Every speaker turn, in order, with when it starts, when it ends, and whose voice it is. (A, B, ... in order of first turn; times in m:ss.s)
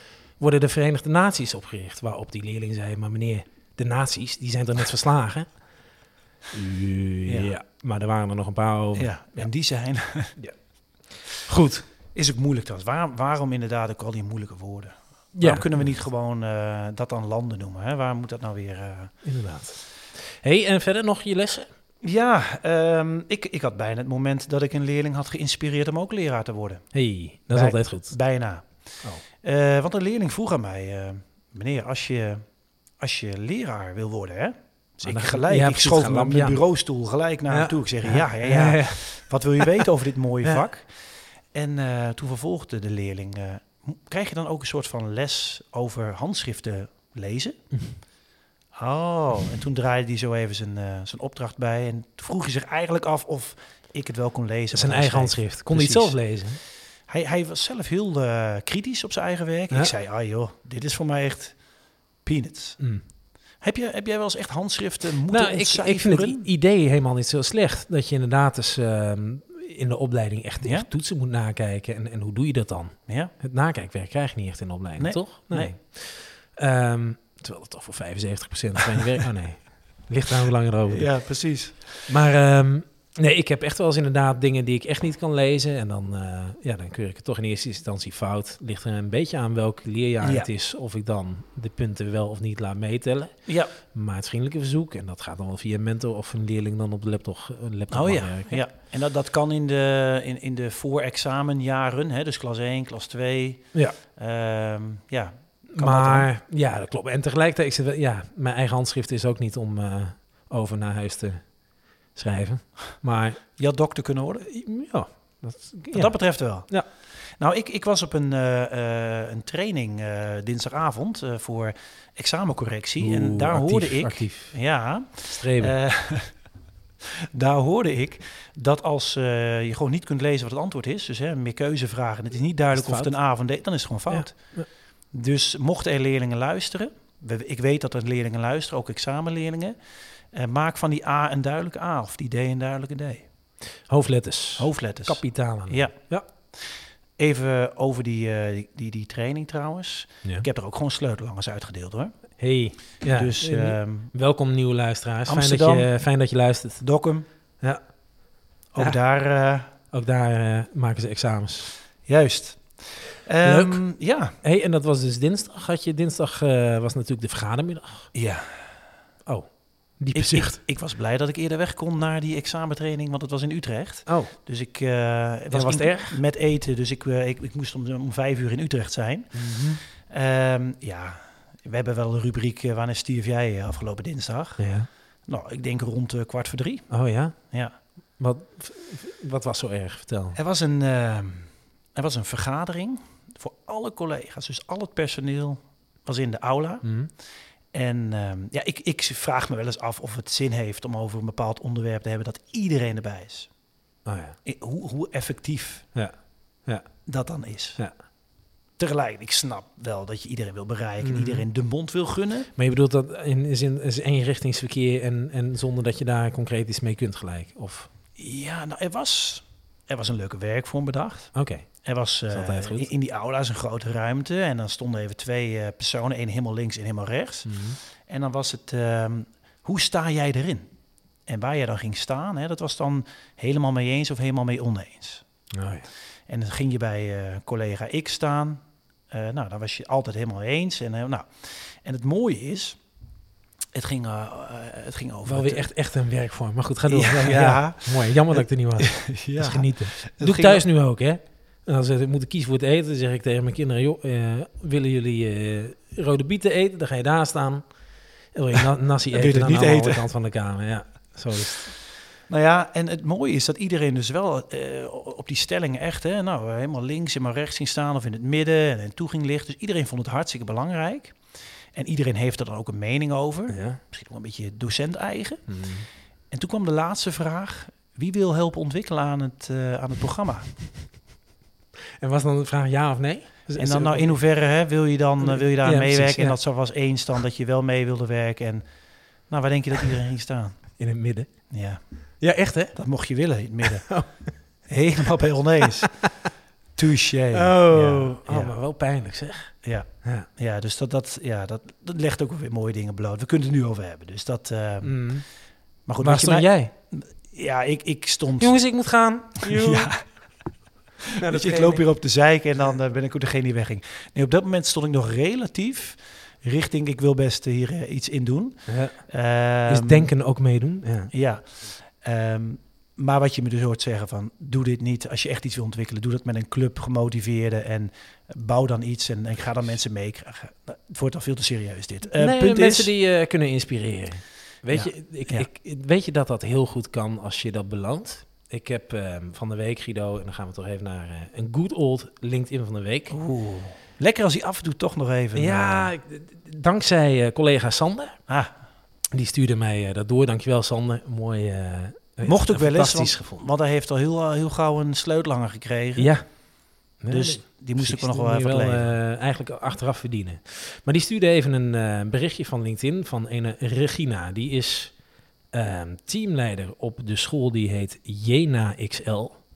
0:00.4-0:05.6 A
0:06.5-0:09.5 A
0:07.3-0:07.5 B
0:09.0-0:10.4 B
0:11.1-0:11.9 A
0:12.1-0:19.1 B
0:15.4-0:15.9 A
0:19.2-0:21.7 A
0:22.0-0:26.8 B
0:26.9-0:28.2 A
0:27.5-0:28.6 B
0:29.4-0:32.4 B
0:33.0-0:47.6 B
0:35.0-0:36.6 A
0:37.5-0:39.9 A
0:48.7-0:56.2 B
0:54.7-0:56.6 A
0:57.1-1:01.6 B
1:02.2-1:02.9 B
1:02.8-1:03.0 A
1:03.6-1:06.5 B
1:05.2-1:21.2 A
1:10.6-1:10.9 B
1:15.0-1:15.7 B
1:20.9-1:22.2 B
1:22.1-1:38.7 A
1:30.2-1:30.5 B
1:33.5-1:33.7 B
1:37.9-1:46.3 B
1:43.7-1:44.0 A
1:45.7-1:51.6 A
1:52.1-1:53.4 A
1:53.6-1:54.5 B
1:54.4-1:56.9 A
1:55.9-1:56.7 B
1:57.4-2:06.4 B
2:03.0-2:04.6 A
2:05.3-2:05.8 A
2:07.2-2:14.5 B
2:12.7-2:13.2 A
2:14.1-2:14.7 A
2:15.1-2:19.8 B
2:20.3-2:23.3 B
2:23.9-2:26.3 A
2:24.6-2:26.0 B
2:27.2-2:32.1 B
2:32.4-2:36.9 A
2:33.0-2:34.1 B
2:35.3-2:35.9 B
2:36.8-2:37.2 B
2:37.6-2:37.9 A
2:38.7-2:39.7 B
2:39.9-2:41.7 A
2:42.1-2:44.4 B
2:43.4-2:43.8 A
2:44.4-2:48.1 A
2:48.1-2:48.8 B
2:49.3-2:50.6 A
2:50.1-2:59.4 B
2:54.1-2:54.4 A
2:55.5-2:56.2 A
2:59.3-2:59.8 A
3:00.0-3:04.6 B
3:04.6-3:04.9 A
3:05.3-3:06.9 B
3:06.9-3:07.4 A
3:07.5-3:07.8 B
3:08.2-3:10.4 A
3:10.4-3:16.9 B
3:16.8-3:17.1 A
3:17.7-3:23.5 B
3:24.1-3:24.4 A
3:24.4-3:25.9 B
3:26.0-3:26.9 A
3:27.1-3:27.8 B
3:28.8-3:32.5 B
3:31.0-3:31.5 A
3:32.6-3:37.9 A
3:38.2-3:50.7 B
3:41.3-3:41.7 A
3:42.3-3:42.9 A
3:47.4-3:47.8 A
3:51.3-3:55.2 B
3:55.5-3:55.9 A
3:56.3-3:58.6 B
3:59.1-4:02.8 B
4:03.7-4:05.7 B
4:05.2-4:17.7 A
4:06.9-4:10.6 B
4:18.3-4:21.7 A
4:18.6-4:20.1 B
4:22.3-4:31.2 B
4:31.7-4:35.4 B
4:33.5-4:33.8 A
4:35.5-4:35.9 A
4:36.3-4:40.5 B
4:42.0-4:44.2 A
4:43.6-4:48.6 B
4:45.2-4:46.4 A
4:49.3-4:50.7 B
4:50.7-4:51.3 A
4:51.5-4:51.8 B
4:52.2-4:52.8 A
4:52.8-4:53.9 B
4:53.6-4:54.4 A
4:54.7-4:55.9 B
4:55.6-4:56.3 A
4:56.8-4:58.6 B
4:57.3-5:00.3 A
4:59.6-5:05.2 B
5:04.8-5:05.2 A
5:05.9-5:08.6 B
5:06.0-5:06.7 A
5:08.4-5:10.1 A
5:09.4-5:10.0 B
5:11.1-5:20.1 B
5:11.2-5:11.9 A
5:18.7-5:19.0 A
5:19.7-5:21.1 A
5:21.1-5:32.9 B
5:32.1-5:43.2 A
5:34.7-5:35.5 B
5:43.1-5:45.9 B
5:45.3-5:48.2 A
5:49.1-5:53.5 A
5:52.2-5:56.1 B
5:56.0-5:56.2 A
5:57.0-6:05.0 A
5:57.1-5:59.0 B
6:05.5-6:09.4 A